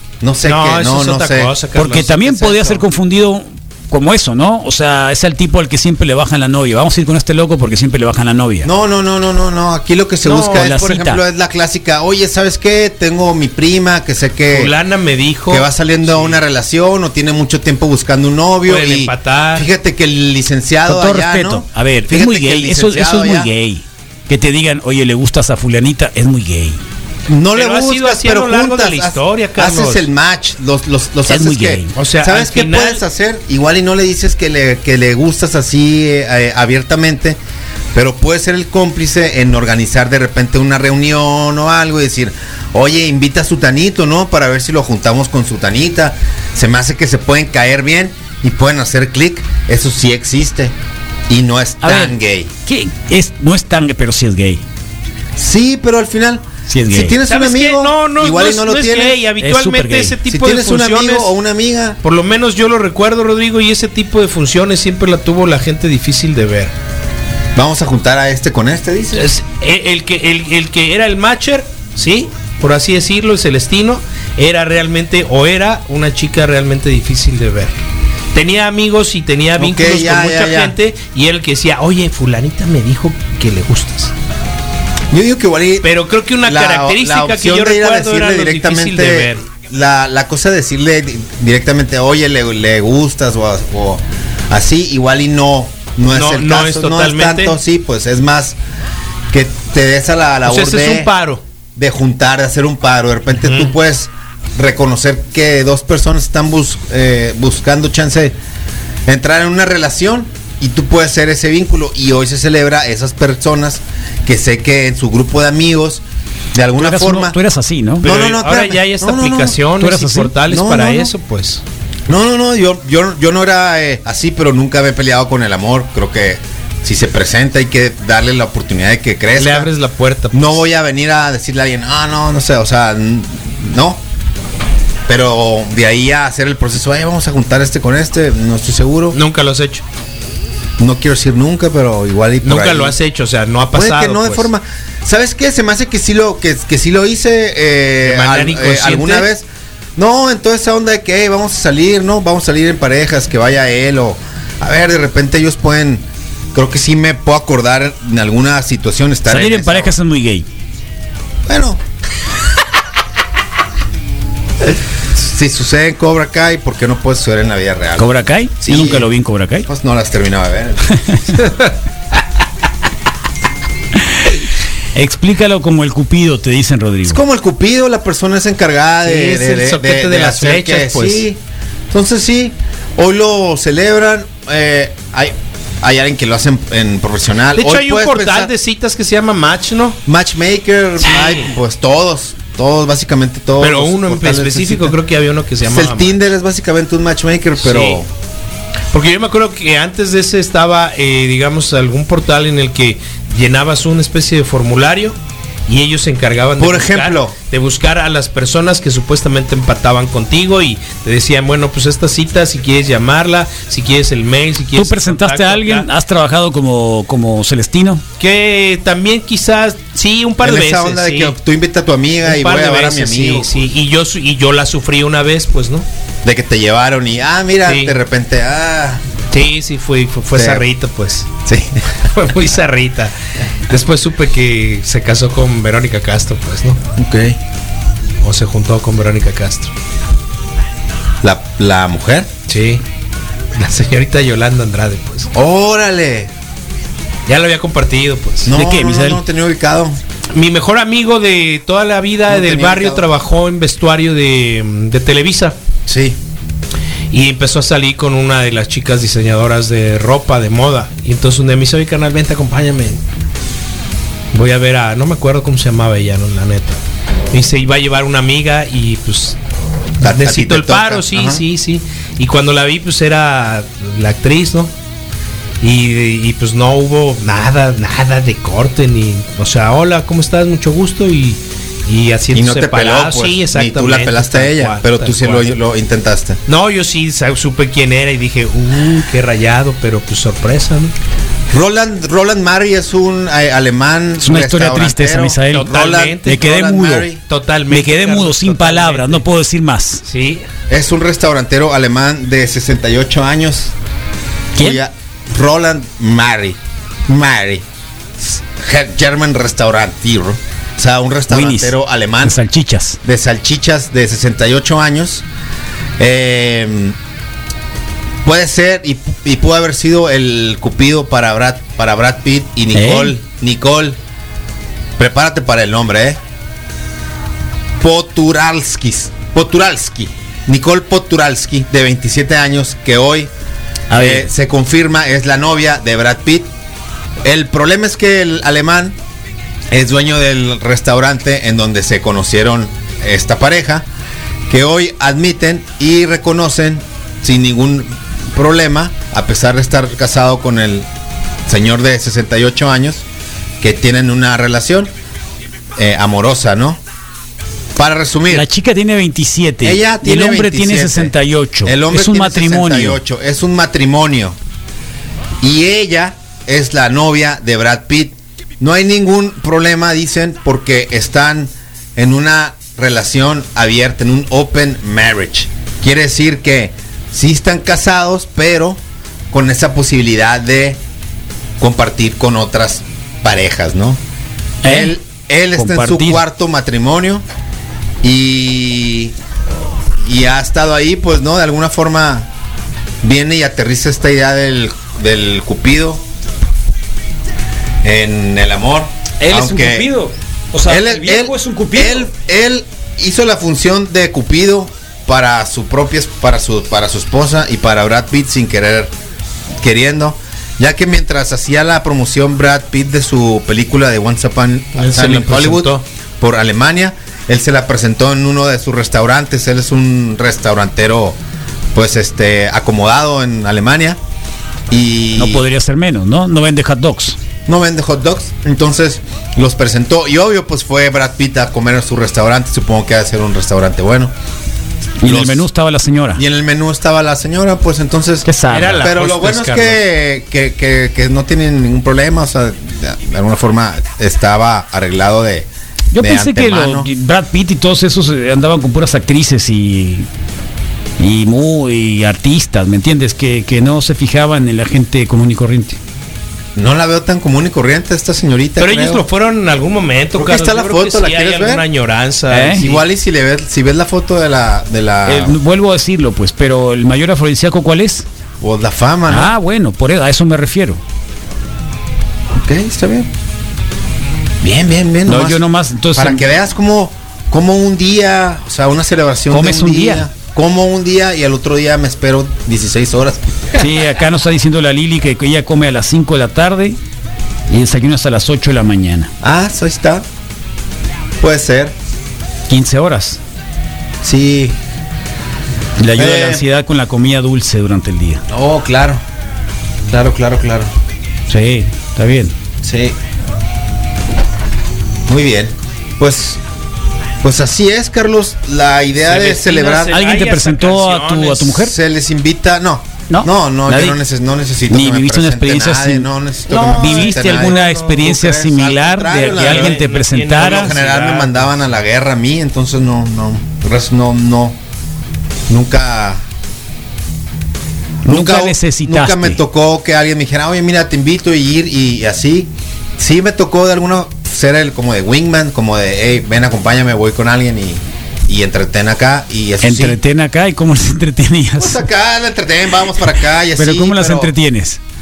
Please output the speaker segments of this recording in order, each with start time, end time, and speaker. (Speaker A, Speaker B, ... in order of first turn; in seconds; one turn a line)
Speaker A: 0.2-1.5
Speaker B: 0.4-2.2
Speaker C: 1.8-8.7
Speaker A: 2.2-2.8
Speaker A: 8.6-14.7
Speaker C: 10.3-11.2
Speaker B: 10.3-10.6
Speaker B: 14.5-16.4
Speaker A: 15.5-23.5
Speaker B: 18.7-19.7
Speaker C: 20.9-26.8
Speaker A: 27.3-37.4
Speaker B: 27.5-30.1
Speaker C: 31.3-31.9
Speaker B: 31.9-33.0
Speaker A: 37.9-50.8
Speaker A: 51.3-52.5
Speaker C: 51.8-54.6
Speaker A: 55.4-59.2
Speaker C: 56.7-57.2
Speaker B: 57.3-61.3
Speaker C: 59.4-60.2
Speaker A: 60.3-62.0
Speaker B: 62.0-66.7
Speaker A: 67.5-69.3
Speaker B: 69.2-77.8
Speaker B: 78.3-84.1
Speaker A: 79.6-80.8
Speaker A: 85.1-98.6
Speaker B: 85.8-89.5
Speaker B: 96.1-97.6
Speaker A: 99.3-101.1
Speaker B: 100.5-101.4
Speaker A: 101.8-108.4
Speaker B: 103.4-103.7
Speaker A: 109.1-116.0
Speaker A: 116.5-117.4
Speaker C: 116.8-118.1
Speaker A: 118.0-119.6
Speaker B: 118.0-121.6
Speaker C: 119.8-120.3
Speaker A: 120.5-121.1
Speaker A: 122.1-129.7
Speaker B: 129.4-130.6
Speaker A: 130.3-134.0
Speaker A: 135.1-139.2
Speaker B: 139.1-139.8
Speaker A: 140.8-143.0
Speaker B: 142.4-144.5
Speaker A: 143.7-159.9
Speaker B: 148.0-149.3
Speaker C: 159.3-160.5
Speaker A: 161.5-161.8
Speaker A: 165.1-169.1
Speaker C: 168.0-169.7
Speaker A: 169.7-171.4
Speaker C: 171.0-171.4
Speaker C: 174.9-177.2
Speaker A: 177.1-181.4
Speaker B: 179.0-181.3
Speaker A: 181.9-188.5
Speaker B: 187.6-190.0
Speaker A: 190.1-195.0
Speaker B: 191.0-191.5
Speaker B: 193.6-196.2
Speaker A: 195.6-198.1
Speaker B: 197.6-198.0
Speaker B: 198.9-205.2
Speaker B: 205.7-215.9
Speaker A: 206.6-207.4
Speaker C: 214.8-218.0
Speaker B: 218.2-221.3
Speaker A: 220.4-223.7
Speaker B: 222.2-225.9
Speaker A: 226.2-229.0
Speaker B: 227.7-227.9
Speaker B: 229.3-231.3
Speaker A: 230.3-230.7
Speaker A: 231.4-232.0
Speaker B: 232.1-233.1
Speaker B: 233.7-236.8
Speaker A: 237.0-237.4
Speaker B: 238.2-239.7
Speaker A: 241.2-242.3
Speaker B: 242.5-242.8
Speaker B: 243.6-245.3
Speaker A: 245.3-246.3
Speaker B: 247.3-248.5
Speaker A: 248.4-250.0
Speaker C: 248.5-249.2
Speaker B: 250.3-255.6
Speaker A: 252.3-253.1
Speaker A: 255.9-256.2
Speaker B: 257.1-263.0
Speaker B: 264.3-266.8
Speaker B: 267.3-269.4
Speaker B: 270.0-274.7
Speaker A: 270.0-271.4
Speaker B: 275.6-285.5
Speaker A: 282.3-286.4
Speaker B: 286.5-290.9
Speaker A: 291.5-297.2
Speaker C: 294.2-297.1
Speaker B: 295.5-296.4
Speaker B: 297.2-299.2
Speaker C: 297.7-300.0
Speaker B: 300.0-300.4
Speaker A: 300.7-303.7
Speaker C: 304.6-304.8
Speaker A: 304.6-307.6
Speaker A: 308.2-312.4
Speaker C: 311.3-313.0
Speaker A: 313.0-315.2
Speaker A: 316.0-317.0
Speaker A: 318.2-324.0
Speaker C: 322.7-323.2
Speaker A: 325.0-326.2
Speaker A: 327.8-333.3
Speaker C: 333.9-334.3
Speaker A: 333.9-336.5
Speaker A: 337.2-339.0
Speaker A: 339.7-343.9
Speaker A: 344.5-350.9
Speaker A: 351.5-353.1
Speaker A: 353.6-354.9
Speaker A: 355.8-356.8
Speaker A: 357.8-358.5
Speaker C: 358.3-363.0
Speaker A: 359.6-364.4
Speaker A: 365.4-378.8
Speaker A: 379.3-380.8
Speaker A: 381.6-384.0
Speaker C: 384.6-385.0
Speaker A: 384.6-387.2
Speaker C: 385.6-386.2
Speaker A: 388.0-389.1
Speaker A: 390.0-392.3
Speaker A: 393.0-396.0
Speaker A: 397.8-399.9
Speaker C: 399.2-402.1
Speaker A: 400.7-408.9
Speaker A: 409.6-421.2
Speaker B: 414.8-415.8
Speaker A: 421.7-424.0
Speaker A: 424.7-425.4
Speaker C: 425.2-427.2
Speaker A: 427.5-434.1
Speaker C: 435.0-436.2
Speaker A: 435.0-435.5
Speaker A: 436.2-446.9
Speaker C: 438.2-438.9
Speaker B: 438.5-439.8
Speaker C: 445.9-450.1
Speaker C: 451.0-455.8
Speaker A: 456.6-459.1
Speaker B: 458.6-462.8
Speaker A: 460.1-461.6
Speaker C: 462.3-462.6
Speaker A: 462.6-465.4
Speaker C: 465.1-468.1
Speaker A: 468.4-469.3
Speaker C: 469.1-470.8
Speaker A: 472.3-473.1
Speaker A: 474.4-475.4
Speaker C: 475.1-476.2
Speaker A: 475.9-483.6
Speaker C: 479.3-480.1
Speaker C: 483.6-486.8
Speaker C: 487.5-489.1
Speaker A: 489.2-490.1
Speaker A: 491.2-491.7
Speaker C: 492.5-493.2
Speaker A: 494.0-494.6
Speaker C: 495.8-498.2
Speaker A: 496.0-496.4
Speaker A: 498.3-499.0
Speaker A: 499.9-500.7
Speaker C: 501.3-502.4
Speaker A: 502.6-503.0
Speaker A: 505.1-506.4
Speaker A: 507.2-510.0
Speaker B: 509.1-511.5
Speaker C: 509.9-511.7
Speaker A: 511.6-524.6
Speaker C: 513.1-514.0
Speaker C: 514.7-516.1
Speaker B: 516.5-518.0
Speaker C: 516.7-520.7
Speaker B: 519.1-521.5
Speaker A: 525.5-526.2
Speaker A: 528.0-540.0
Speaker C: 528.1-529.4
Speaker C: 539.6-541.8
Speaker A: 541.6-544.3
Speaker C: 543.6-544.8